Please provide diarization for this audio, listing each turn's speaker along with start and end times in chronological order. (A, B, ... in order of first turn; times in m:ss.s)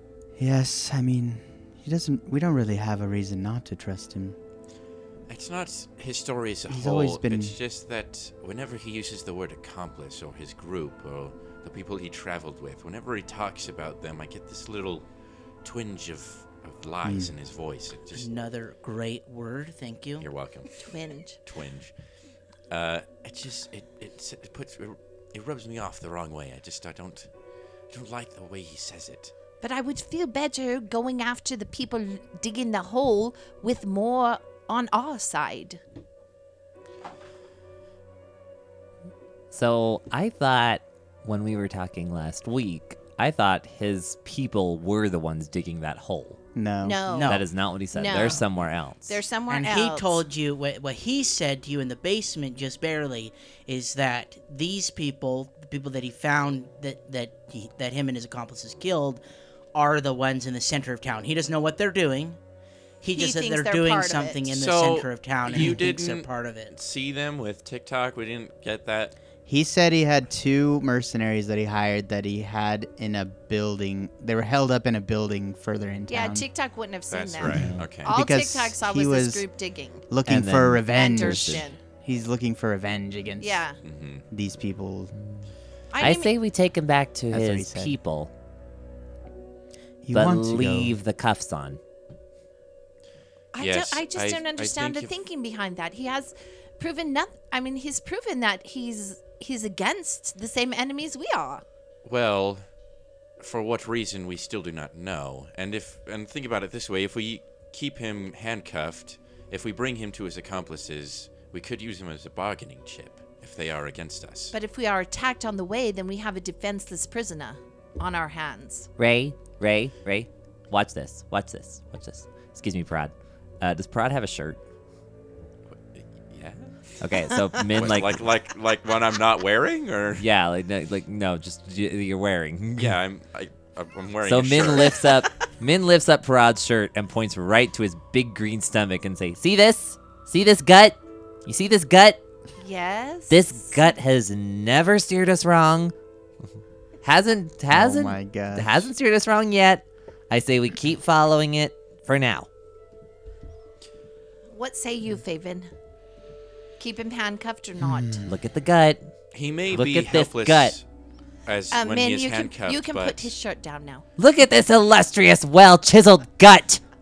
0:00.4-0:04.4 A
0:05.3-0:15.1 B
0:06.7-0:07.6 A
0:15.6-0:18.3 B
0:17.0-0:17.3 A
0:18.1-0:20.3 C
0:20.2-0:20.8 B
0:20.8-0:21.4 D
0:21.4-0:21.9 B
0:22.7-0:27.3 B
0:27.9-0:29.3 B
0:29.6-0:35.8 D
0:39.5-0:46.4 E
0:46.6-0:47.0 A
0:46.8-0:47.4 D
0:47.1-0:47.4 C
0:47.3-0:49.2 E
0:47.9-0:48.5 D
0:49.1-0:50.2 D
0:49.5-0:59.2 C
0:59.8-1:02.4 C
1:03.0-1:06.7 C
1:03.2-1:04.5 D
1:04.5-1:09.1 B
1:09.5-1:16.5 A
1:16.1-1:20.0 D
1:17.1-1:18.2 B
1:17.5-1:17.9 E
1:17.6-1:19.4 A
1:20.1-1:23.6 A
1:20.3-1:21.7 E
1:20.9-1:21.8 D
1:23.4-1:23.8 D
1:23.8-1:24.2 B
1:24.3-1:25.1 A
1:25.9-1:26.4 D
1:26.0-1:28.3 E
1:27.3-1:28.0 A
1:30.0-1:31.0 A
1:30.1-1:31.8 E
1:33.5-1:41.6 D
1:33.6-1:35.1 B
1:42.0-1:42.7 B
1:43.4-1:54.6 B
1:54.5-1:58.9 D
1:59.0-2:04.6 E
2:05.7-2:06.7 B
2:07.0-2:08.2 E
2:07.7-2:10.3 B
2:10.2-2:13.0 E
2:12.8-2:15.0 B
2:14.3-2:22.2 E
2:22.6-2:23.9 D
2:23.3-2:25.9 E
2:27.0-2:32.5 E
2:27.7-2:28.9 A
2:34.5-2:35.7 D
2:36.8-2:38.2 D
2:37.8-2:38.4 A
2:38.3-2:39.1 E
2:39.3-2:40.8 B
2:39.7-2:40.8 E
2:41.5-2:43.3 B
2:41.7-2:44.0 D
2:44.2-2:46.8 E